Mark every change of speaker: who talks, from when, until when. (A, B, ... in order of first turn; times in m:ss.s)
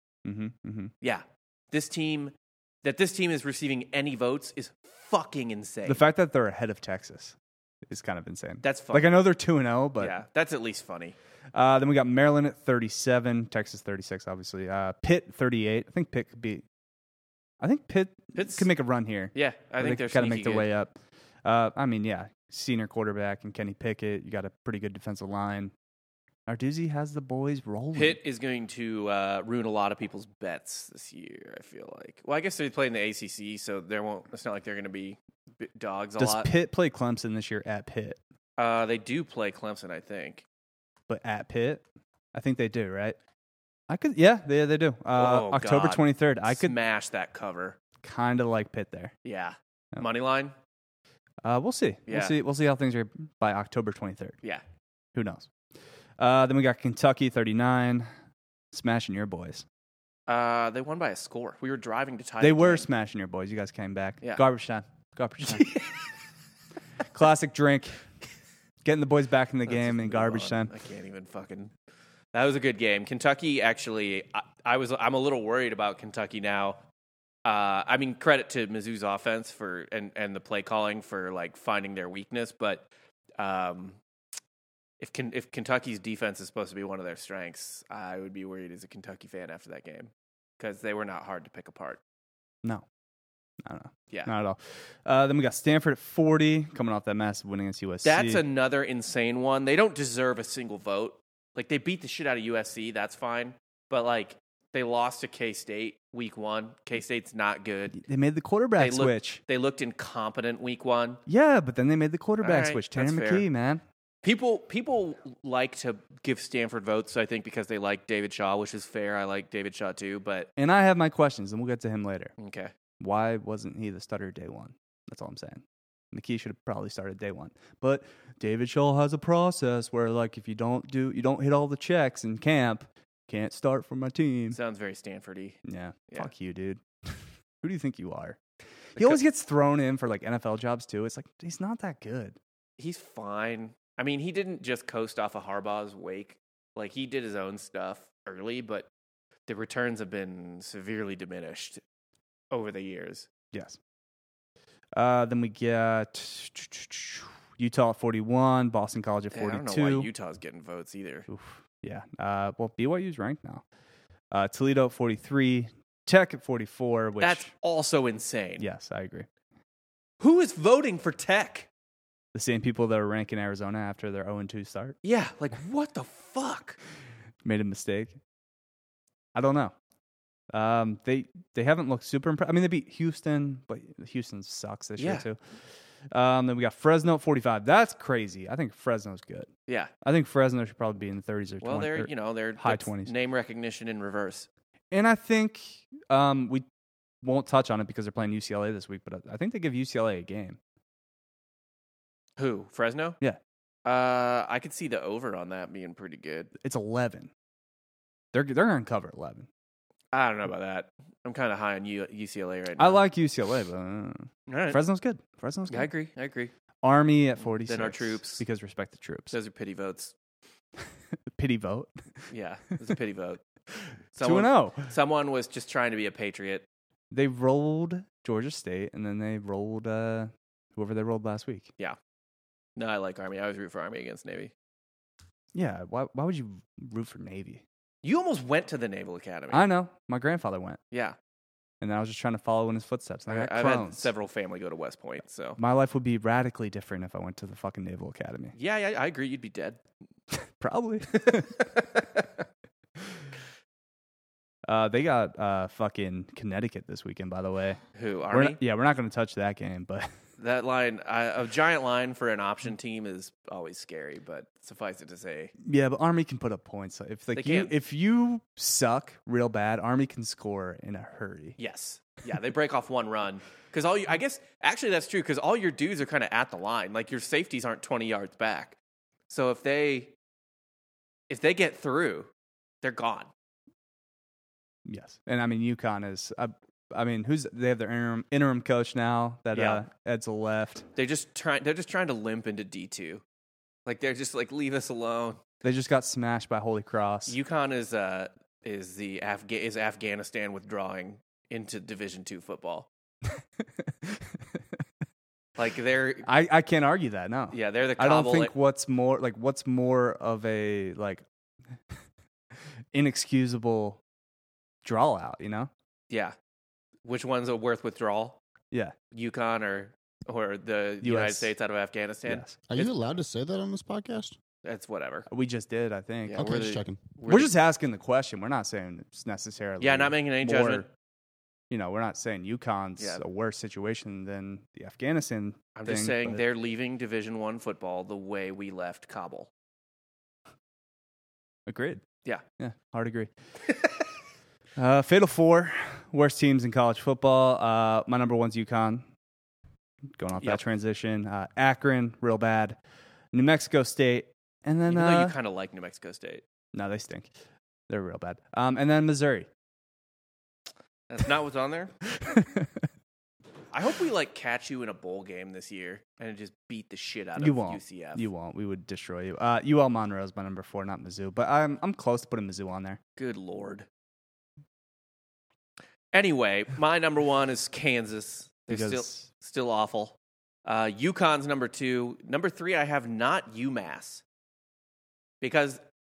0:00.2-0:00.9 A
0:01.0-0:06.0 B
0:05.8-0:10.2 A
0:08.6-0:09.1 B
0:10.0-0:11.1 B
0:11.5-0:16.6 A
0:17.6-0:25.7 A
0:18.3-0:18.7 B
0:19.3-0:20.7 B
0:26.5-0:28.2 A
0:27.9-0:36.5 B
0:36.2-0:38.2 A
0:38.6-0:40.4 B
0:41.1-0:43.2 A
0:43.9-0:46.7 A
0:45.1-0:47.8 B
0:48.0-0:49.1 A
0:49.2-0:50.5 B
0:51.4-0:54.4 A
0:52.1-0:52.4 B
0:55.1-0:55.5 A
0:56.2-0:58.1 A
0:58.7-0:59.6 A
1:00.3-1:02.9 B
1:02.4-1:05.7 A
1:05.4-1:06.0 B
1:07.1-1:08.0 A
1:08.8-1:10.7 A
1:09.7-1:11.7 B
1:12.3-1:16.8 B
1:17.4-1:22.9 B
1:23.4-1:24.0 B
1:25.0-1:32.0 B
1:33.6-1:38.4 A
1:38.0-1:48.0 B
1:47.9-1:49.4 A
1:48.8-1:51.2 B
1:51.3-1:53.8 A
1:52.4-1:53.4 B
1:54.2-2:00.5 B
2:00.6-2:02.3 A
2:02.4-2:02.7 B
2:03.0-2:14.6 A
2:14.5-2:16.3 B
2:15.6-2:18.4 A
2:18.9-2:22.4 A
2:22.8-2:28.9 B
2:29.5-2:31.8 B
2:32.5-2:33.3 B
2:33.5-2:33.8 A
2:34.9-2:40.1 A
2:39.3-2:41.3 B
2:41.3-2:43.6 A
2:44.3-2:47.5 A
2:47.2-2:48.6 B
2:48.6-2:49.3 A
2:50.2-2:51.7 B
2:52.3-2:55.0 A
2:55.0-2:56.8 B
2:57.4-2:58.2 A
2:59.3-2:59.7 A
3:00.5-3:05.4 A
3:05.0-3:05.3 B
3:06.1-3:09.5 A
3:09.7-3:09.9 B
3:10.0-3:13.1 A
3:11.6-3:14.5 B
3:14.9-3:16.6 A
3:17.2-3:20.6 A
3:22.4-3:23.2 B
3:23.8-3:26.5 B
3:26.6-3:27.3 A
3:28.3-3:29.5 A
3:30.1-3:33.0 B
3:32.8-3:35.9 A
3:34.5-3:34.8 B
3:35.7-3:36.5 B
3:36.8-3:39.3 A
3:37.6-3:38.4 B
3:39.3-3:40.1 B
3:41.3-3:41.9 A
3:42.3-3:43.4 B
3:44.1-3:46.6 B
3:44.2-3:44.9 A
3:47.1-3:51.7 A
3:52.8-3:54.5 B
3:55.5-3:57.6 A
3:58.0-3:59.7 B
3:59.5-4:00.8 A
4:00.9-4:01.2 B
4:01.8-4:04.1 A
4:03.3-4:05.6 B
4:05.6-4:08.5 A
4:08.6-4:09.8 B
4:10.6-4:11.7 A
4:11.2-4:12.2 B
4:14.6-4:17.8 A
4:17.9-4:18.6 B
4:18.3-4:20.1 A
4:20.4-4:25.5 B
4:25.6-4:31.6 A
4:27.3-4:27.7 B
4:31.6-4:38.8 B
4:39.3-4:40.1 B
4:41.3-4:42.3 B
4:42.8-4:43.3 B
4:44.8-4:50.8 A
4:49.5-4:49.8 B
4:50.9-4:53.2 B
4:53.8-4:55.4 B
4:55.6-4:57.3 A
4:57.3-5:02.9 B
5:05.6-5:06.3 B
5:06.2-5:11.2 A
5:07.5-5:08.5 B
5:12.9-5:14.0 A
5:14.8-5:15.7 A
5:16.1-5:16.3 B
5:17.0-5:18.4 B
5:19.1-5:22.9 B
5:21.0-5:21.5 A
5:22.3-5:22.5 A
5:22.7-5:24.4 C
5:24.6-5:25.3 B
5:25.3-5:26.6 A
5:26.2-5:27.5 B
5:26.3-5:27.0 C
5:27.3-5:30.9 A
5:29.8-5:30.8 B
5:31.7-5:36.4 A
5:35.8-5:39.5 B
5:41.7-5:42.0 A
5:42.6-5:43.3 A
5:44.8-5:49.1 A
5:50.1-5:52.8 A
5:53.3-5:55.3 A
5:54.9-5:56.4 B
5:56.7-5:57.3 A
5:57.9-5:59.5 A
6:01.1-6:01.9 B
6:02.2-6:02.7 A
6:03.7-6:08.2 B
6:07.4-6:13.0 A
6:13.2-6:13.9 B
6:16.1-6:24.2 B
6:18.7-6:19.3 A
6:25.4-6:25.8 B